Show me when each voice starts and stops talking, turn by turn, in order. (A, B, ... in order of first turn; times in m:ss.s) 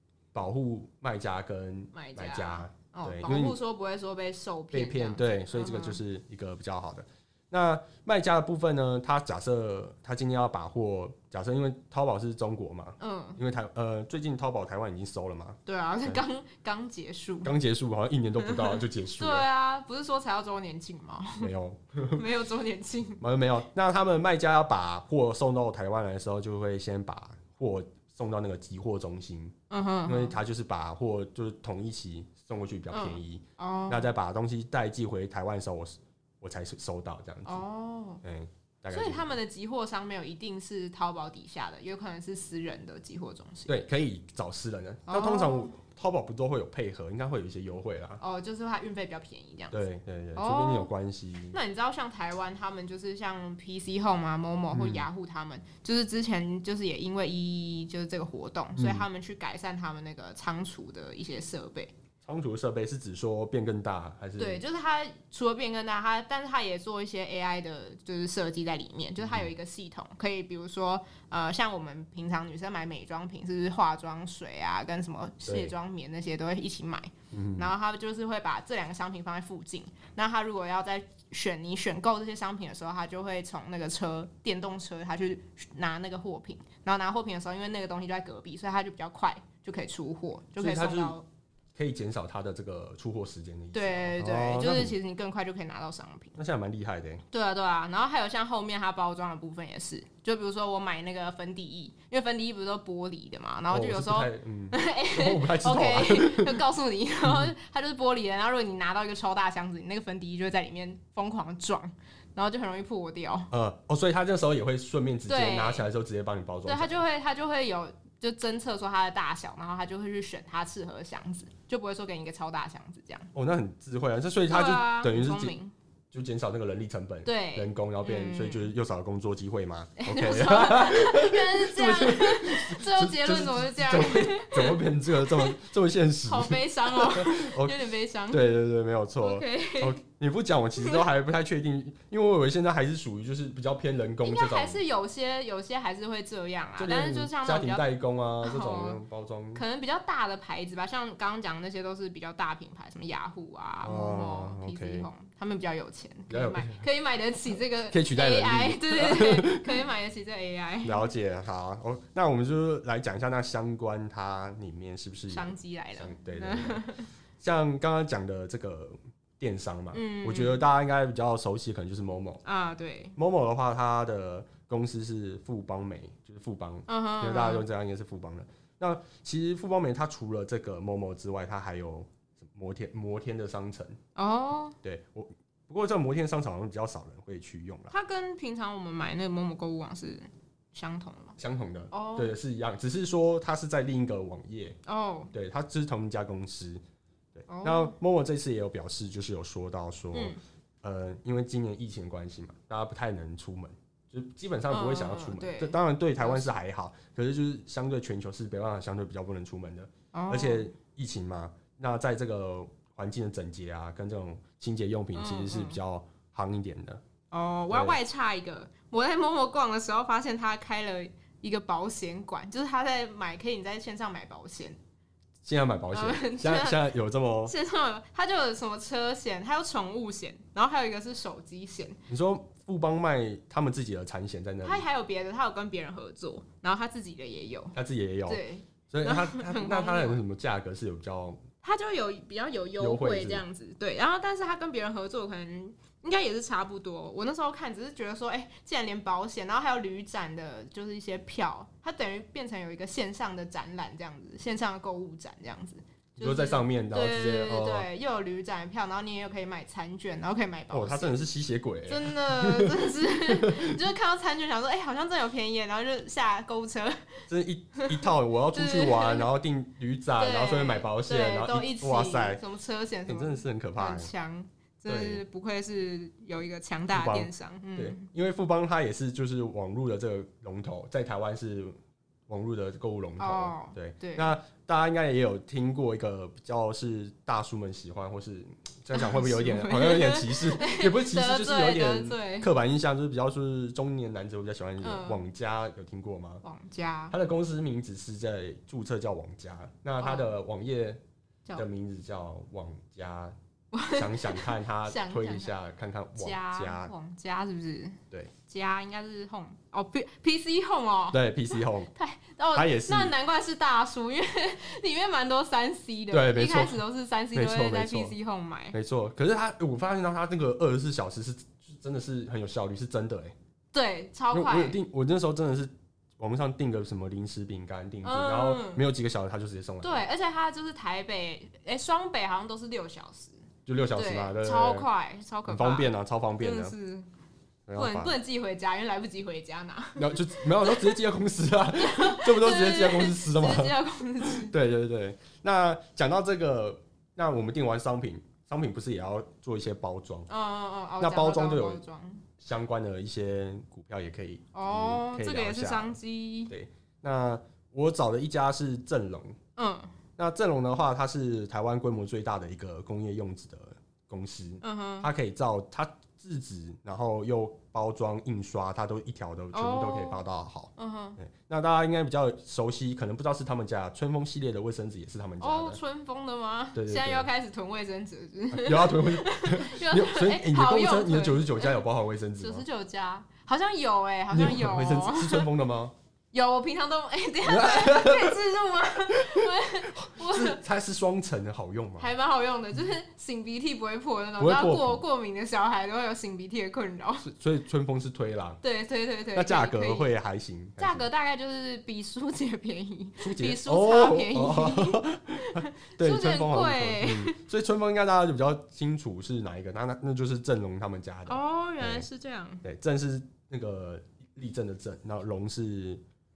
0:00.3-0:03.6 A
0:01.9-0:06.0 B
0:04.7-0:16.2 A
0:13.0-0:13.4 B
0:15.6-0:17.5 B
0:17.4-0:19.5 A
0:18.4-0:21.5 B
0:21.4-0:22.2 A
0:22.1-0:23.2 B
0:23.2-0:29.5 A
0:29.7-0:30.4 B
0:30.1-0:37.6 A
0:32.9-0:34.1 B
0:37.5-0:38.2 B
0:38.2-0:39.3 A
0:38.9-0:43.8 B
0:43.7-0:48.2 A
0:45.1-0:45.8 B
0:48.2-0:49.8 B
0:49.7-0:51.6 A
0:50.4-0:50.9 B
0:51.5-1:01.9 B
0:54.7-0:55.1 A
0:58.8-0:59.1 A
1:02.2-1:04.6 A
1:04.4-1:31.2 B
1:09.2-1:09.5 A
1:15.5-1:15.7 A
1:17.3-1:17.7 A
1:30.6-1:31.2 A
1:31.8-1:35.0 A
1:33.7-1:36.4 B
1:36.4-1:37.2 A
1:37.3-1:53.5 B
1:43.7-1:46.6 A
1:47.2-1:47.5 A
1:53.5-1:57.0 A
1:55.3-1:55.9 B
1:56.6-2:03.3 B
2:03.3-2:05.5 A
2:04.5-2:05.8 B
2:06.1-2:24.8 A
2:07.2-2:08.7 B
2:10.0-2:15.6 B
2:16.2-2:18.4 B
2:19.2-2:20.0 B
2:20.8-2:21.0 B
2:24.2-2:27.9 B
2:26.8-2:29.6 A
2:28.4-2:29.0 B
2:29.5-2:41.1 B
2:33.8-2:35.1 A
2:36.3-2:36.8 A
2:37.9-2:39.8 A
2:40.8-2:46.9 A
2:45.3-2:47.1 B
2:47.4-2:52.4 A
2:49.9-2:50.6 B
2:52.4-2:53.2 B
2:53.2-3:04.0 A
2:56.9-2:57.6 B
3:04.2-3:04.8 B
3:04.8-3:07.9 A
3:07.9-3:11.4 B
3:11.4-3:14.8 A
3:11.9-3:12.4 B
3:14.8-3:15.3 B
3:15.3-3:16.8 A
3:17.4-3:37.0 A
3:17.5-3:18.0 B
3:20.1-3:20.4 B
3:24.7-3:26.5 B
3:30.1-3:30.7 B
3:35.1-3:35.8 B
3:37.3-3:44.8 B
3:37.7-3:38.0 A
3:45.4-3:47.6 A
3:45.9-3:46.9 B
3:47.4-3:52.0 B
3:52.1-3:54.9 A
3:54.6-4:00.2 B
3:57.7-4:01.4 A
4:01.6-4:21.2 B
4:02.8-4:03.4 A
4:16.2-4:17.9 A
4:20.7-4:23.8 A
4:21.9-4:27.2 B
4:27.3-4:32.4 A
4:27.8-4:29.3 B
4:30.2-4:38.1 B
4:33.1-4:34.1 A
4:34.9-4:35.2 A
4:36.9-4:41.7 A
4:42.3-4:56.4 A
4:43.2-4:44.3 B
4:48.9-4:52.5 B
4:54.8-4:55.2 B
4:56.4-4:57.2 B
4:57.1-5:01.0 A
5:00.0-5:00.3 B
5:01.6-5:03.4 A
5:03.7-5:05.5 B
5:03.9-5:06.9 A
5:06.2-5:18.8 B
5:11.1-5:11.9 A
5:12.5-5:13.1 A
5:16.1-5:16.8 A
5:17.3-5:18.2 A
5:18.7-5:23.4 A
5:23.7-5:24.8 B
5:24.3-5:30.0 A
5:28.0-5:28.8 B
5:29.8-5:37.1 B
5:33.6-5:34.9 A
5:35.5-5:36.7 A
5:37.7-5:38.1 A
5:37.8-5:41.0 B
5:40.0-5:50.3 A
5:41.8-5:44.5 B
5:50.3-5:52.2 B
5:51.0-5:51.8 A
5:52.4-5:56.0 A
5:54.5-5:56.5 B
5:56.5-5:59.4 A
5:59.6-5:59.9 B
6:00.2-6:15.8 A
6:04.6-6:05.1 B
6:09.5-6:10.2 B
6:10.8-6:11.2 B
6:15.4-6:21.8 B
6:16.8-6:17.3 A
6:18.5-6:22.6 A
6:22.4-6:25.5 B
6:24.3-6:25.9 A
6:26.3-6:30.6 B
6:27.4-6:28.4 A
6:29.1-6:32.1 A
6:32.0-6:37.3 B
6:34.4-6:35.0 A
6:37.2-6:38.6 A
6:38.6-6:40.1 B
6:39.3-6:41.1 A
6:40.8-6:47.4 B
6:43.2-6:52.1 A
6:51.2-6:52.6 B
6:52.6-6:56.0 A